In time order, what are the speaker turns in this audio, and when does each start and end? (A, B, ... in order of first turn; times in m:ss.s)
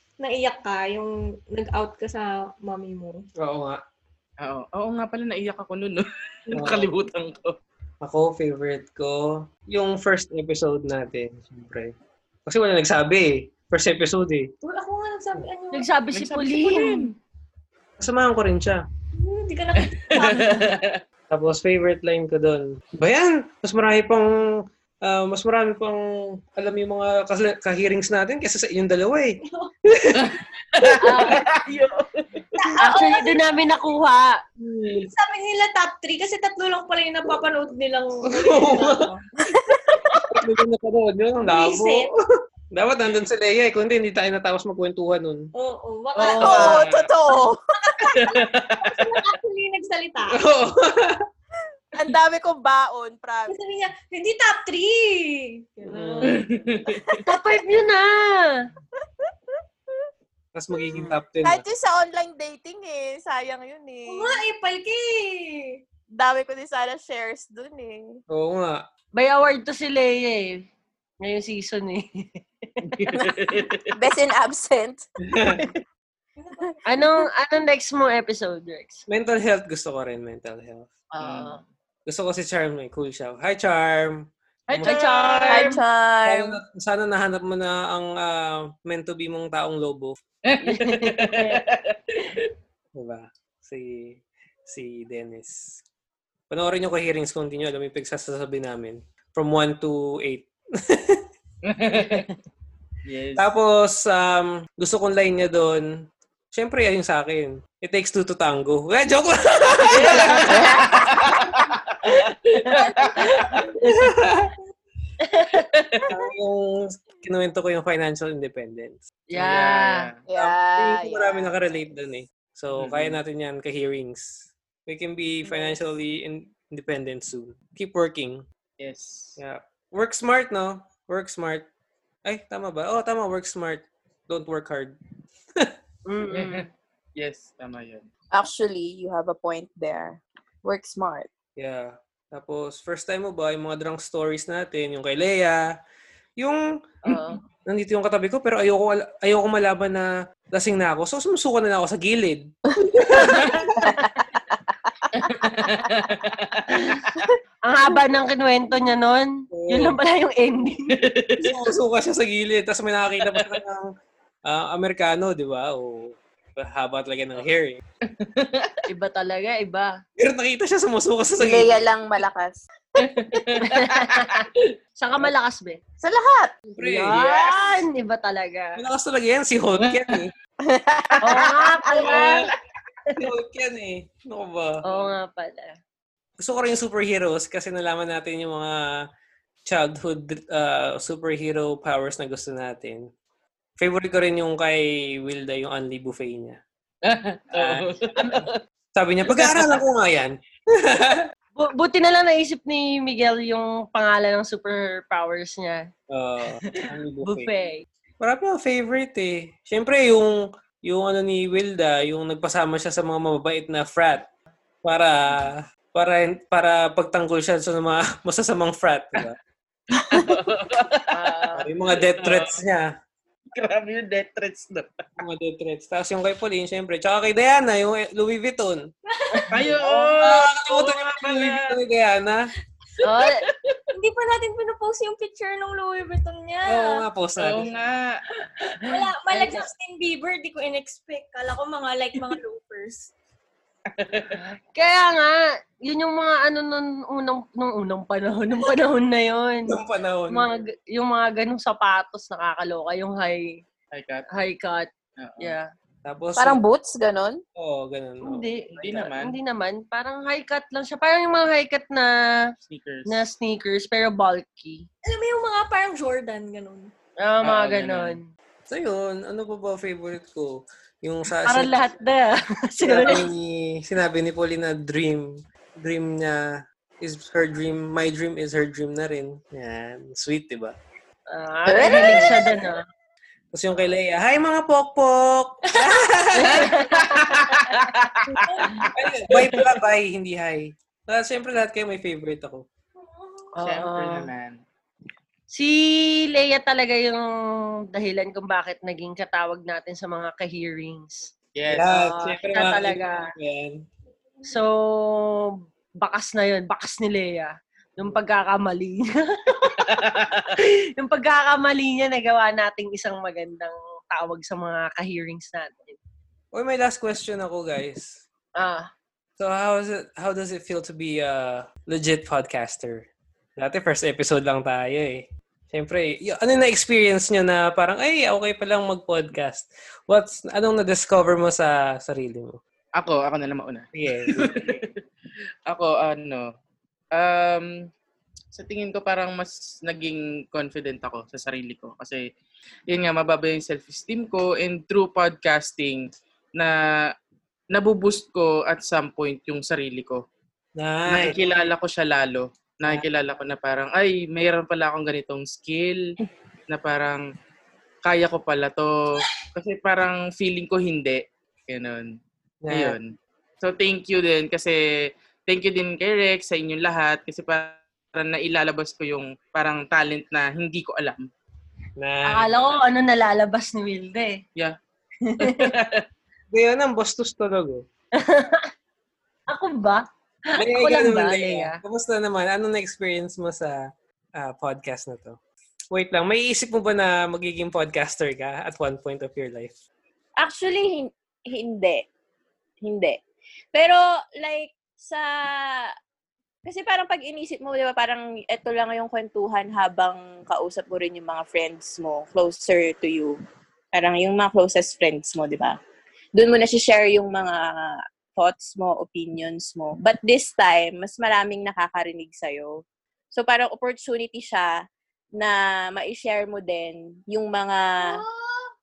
0:00.2-0:03.2 A
0:03.4-0:03.8 B
0:04.4-0:07.6 C
0:06.5-0:06.9 B
0:08.0-0:11.9 B
0:12.4-0:14.5 B
0:14.6-0:15.8 A
0:15.7-0:17.1 D
0:16.1-0:17.1 C
0:18.0-0:18.8 B
0:19.2-0:20.8 A
0:19.9-0:20.9 C
0:21.3-0:24.3 B
0:25.0-0:29.4 B
0:29.9-0:30.2 B
0:30.2-0:32.4 C
0:31.0-0:31.4 D
0:32.6-0:33.4 A
0:32.8-0:34.4 D
0:34.6-0:35.1 B
0:35.1-0:39.8 A
0:38.4-0:39.0 B
0:40.3-0:42.1 B
0:41.4-0:42.1 A
0:42.7-0:45.5 B
0:45.5-0:46.9 A
0:46.2-0:47.0 C
0:46.4-0:47.6 E
0:48.1-0:49.0 C
0:48.8-0:50.4 A
0:50.3-0:51.2 B
0:51.9-0:53.6 E
0:53.5-0:56.4 A
0:55.8-0:56.4 B
0:56.2-0:57.1 C
0:56.9-0:57.3 E
0:57.2-0:58.6 D
1:00.5-1:01.6 B
1:01.4-1:04.4 E
1:04.0-1:05.8 A
1:06.1-1:08.2 E
1:08.3-1:08.8 B
1:09.2-1:10.7 D
1:11.2-1:12.4 D
1:12.9-1:13.8 C
1:13.9-1:15.0 E
1:16.4-1:16.7 A
1:16.8-1:19.0 D
1:19.1-1:20.9 B
1:21.1-1:21.6 D
1:21.2-1:21.6 C
1:22.0-1:25.0 B
1:24.7-1:25.7 C
1:24.8-1:25.8 D
1:25.5-1:26.6 E
1:26.2-1:30.2 B
1:30.5-1:32.5 C
1:30.6-1:31.6 D
1:32.9-1:35.7 B
1:36.5-1:41.2 B
1:41.7-1:42.3 C
1:43.0-1:43.5 C
1:43.4-1:45.9 B
1:46.5-1:51.1 B
1:49.9-1:51.8 C
1:52.1-1:52.8 D
1:52.6-1:53.4 C
1:53.4-1:54.0 D
1:53.6-1:54.5 B
1:55.2-1:55.6 D
1:56.1-1:59.0 B
1:59.3-2:00.1 D
1:59.3-2:00.2 C
2:00.3-2:01.5 E
2:00.4-2:08.4 B
2:02.8-2:03.2 C
2:08.8-2:09.4 C
2:09.4-2:11.7 B
2:12.2-2:15.0 B
2:16.1-2:16.6 D
2:16.3-2:18.1 C
2:18.3-2:21.3 E
2:21.6-2:25.6 B
2:27.0-2:27.4 D
2:27.6-2:33.7 B
2:33.8-2:34.2 E
2:35.2-2:37.0 C
2:37.6-2:40.9 D
2:39.5-2:40.0 B
2:41.0-2:41.4 C
2:41.4-2:43.9 B
2:43.3-2:43.6 C
2:44.5-2:47.8 B
2:48.2-2:48.7 C
2:48.9-2:49.9 D
2:50.2-2:51.7 B
2:51.4-2:52.6 E
2:53.0-2:54.6 C
2:53.6-2:54.3 D
2:55.0-2:55.8 D
2:56.0-2:56.5 E
2:56.7-2:57.3 B
2:56.8-2:58.8 D
2:58.8-3:00.3 B
2:59.8-3:00.2 C
3:00.7-3:02.4 E
3:01.2-3:02.4 D
3:02.0-3:02.4 C
3:03.2-3:04.8 B
3:04.8-3:05.8 D
3:06.4-3:08.8 B
3:09.7-3:13.0 B
3:13.8-3:16.6 B
3:17.1-3:18.5 C
3:17.5-3:18.0 B
3:18.2-3:18.4 D
3:18.9-3:20.3 B
3:20.9-3:21.3 B
3:21.6-3:25.8 D
3:26.1-3:27.5 B
3:26.8-3:27.8 D
3:28.2-3:34.2 B
3:34.8-3:39.4 B
3:39.9-3:42.6 C
3:41.1-3:41.7 D
3:41.6-3:42.9 B
3:43.6-3:44.8 C
3:45.2-3:48.8 B
3:49.1-3:49.6 A
3:49.5-3:51.7 C
3:50.2-3:52.5 B
3:53.0-3:53.4 D
3:53.2-3:53.7 C
3:53.9-3:57.0 A
3:56.7-3:57.7 B
3:57.4-3:58.2 C
3:58.6-3:59.6 D
3:58.8-4:03.1 A
4:04.0-4:04.3 C
4:04.4-4:09.8 D
4:09.7-4:10.6 B
4:10.3-4:13.6 D
4:13.9-4:14.2 C
4:14.3-4:14.9 D
4:15.2-4:15.6 C
4:15.4-4:15.7 D
4:16.0-4:16.6 B
4:16.4-4:17.4 E
4:17.6-4:18.6 B
4:18.2-4:22.1 D
4:18.7-4:19.3 C
4:22.6-4:23.2 C
4:23.1-4:24.9 D
4:25.0-4:26.9 A
4:27.2-4:28.3 D
4:27.4-4:28.2 C
4:28.7-4:31.7 B
4:31.4-4:33.2 D
4:32.9-4:36.4 B
4:37.0-4:40.7 B
4:41.3-4:42.8 D
4:41.7-4:42.3 E
4:42.1-4:42.3 B
4:43.5-4:46.7 B
4:46.4-4:47.4 D
4:46.6-4:48.8 C
4:48.9-4:52.6 B
4:53.6-4:54.3 D
4:53.6-4:54.6 C
4:55.5-4:57.3 D
4:57.9-5:01.3 D
5:01.5-5:01.9 C
5:01.7-5:03.8 B
5:01.8-5:03.3 D
5:04.4-5:10.0 D
5:10.6-5:16.0 D
5:16.5-5:18.2 B
5:18.6-5:18.9 D
5:19.4-5:23.1 B
5:23.6-5:32.6 B
5:33.0-5:34.8 C
5:33.9-5:34.5 B
5:35.7-5:36.5 C
5:37.1-5:37.7 C
5:38.5-5:42.2 C
5:42.9-5:46.7 C
5:47.7-5:50.2 C
5:50.8-5:51.4 B
5:51.1-5:56.0 C
5:56.7-5:57.2 C
5:58.0-6:02.1 C
6:02.6-6:03.0 B
6:02.7-6:04.8 C
6:05.4-6:11.2 C
6:12.0-6:12.6 B
6:12.3-6:14.4 D
6:15.3-6:15.7 D
6:15.4-6:16.0 C
6:16.5-6:17.8 B
6:18.2-6:18.6 D
6:19.5-6:20.0 D
6:20.5-6:21.8 D
6:20.6-6:23.8 B
6:24.4-6:25.4 B
6:25.9-6:29.7 B
6:30.4-6:32.0 E
6:32.8-6:33.2 E
6:33.7-6:35.3 E
6:36.6-6:43.3 E
6:43.9-6:45.8 E
6:46.4-6:52.8 E
6:53.3-6:54.7 E
6:55.4-6:58.2 E
6:58.1-6:58.6 A